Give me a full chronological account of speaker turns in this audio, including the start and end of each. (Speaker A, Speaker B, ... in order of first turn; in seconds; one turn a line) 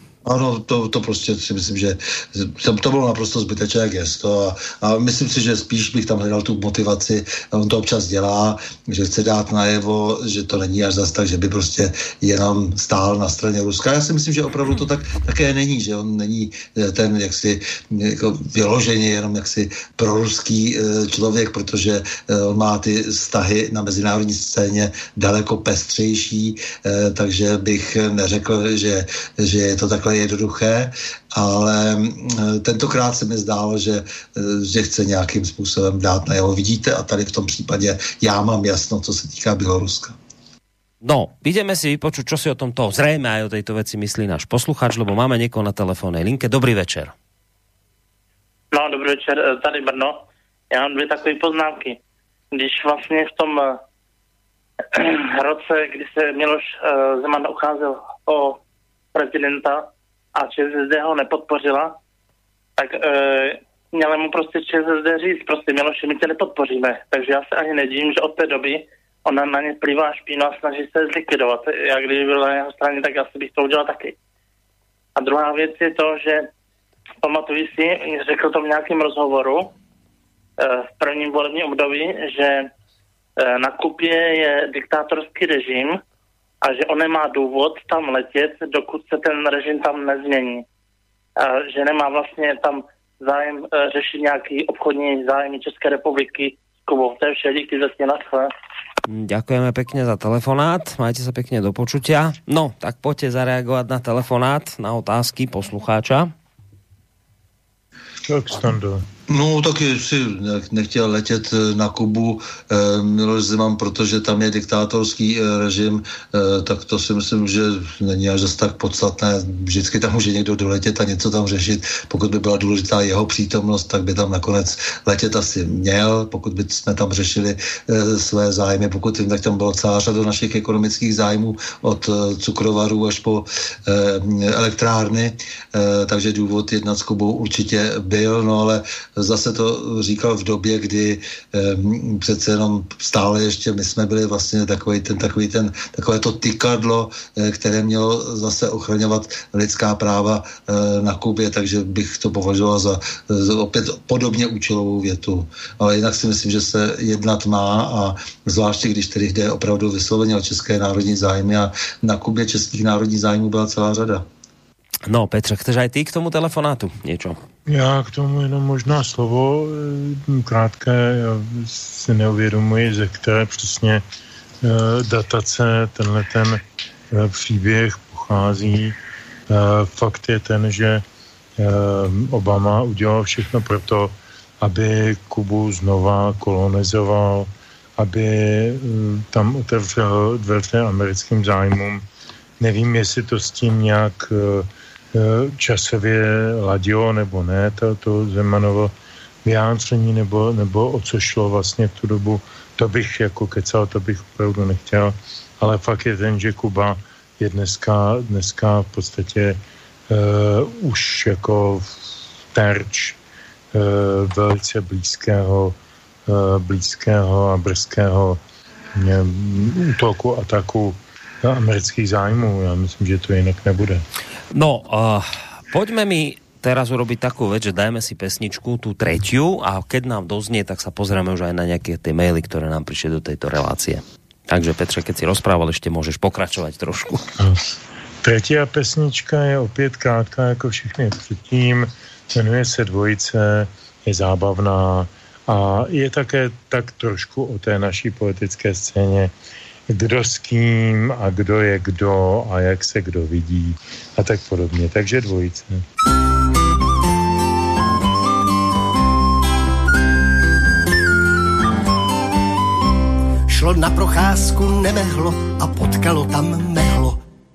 Speaker A: 0.2-40.2
Speaker B: 41.0-47.1
Speaker C: 48.7-52.0
Speaker C: 52.5-53.8
Speaker C: 54.9-58.6
Speaker C: 59.1-62.0
Speaker C: 62.8-74.2
Speaker C: 75.2-76.5
Speaker C: 77.2-79.7
Speaker C: 80.6-82.7
Speaker C: 83.4-86.0
Speaker C: 86.6-90.6
Speaker C: 91.4-98.5
Speaker B: 99.0-106.3
Speaker D: 108.2-109.0
Speaker A: 109.3-164.2
Speaker B: 165.1-167.4
Speaker D: 167.7-174.0
Speaker D: 174.6-178.9
Speaker D: 179.5-181.0
Speaker D: 181.6-192.0
Speaker D: 192.6-198.9
Speaker D: 199.4-209.6
Speaker D: 210.1-211.9
Speaker D: 212.5-213.2
Speaker D: 213.7-215.7
Speaker D: 216.3-218.4
Speaker D: 218.9-224.0
Speaker B: 224.5-237.3
Speaker D: 238.2-249.3
Speaker D: 249.9-255.8
Speaker E: 263.5-267.2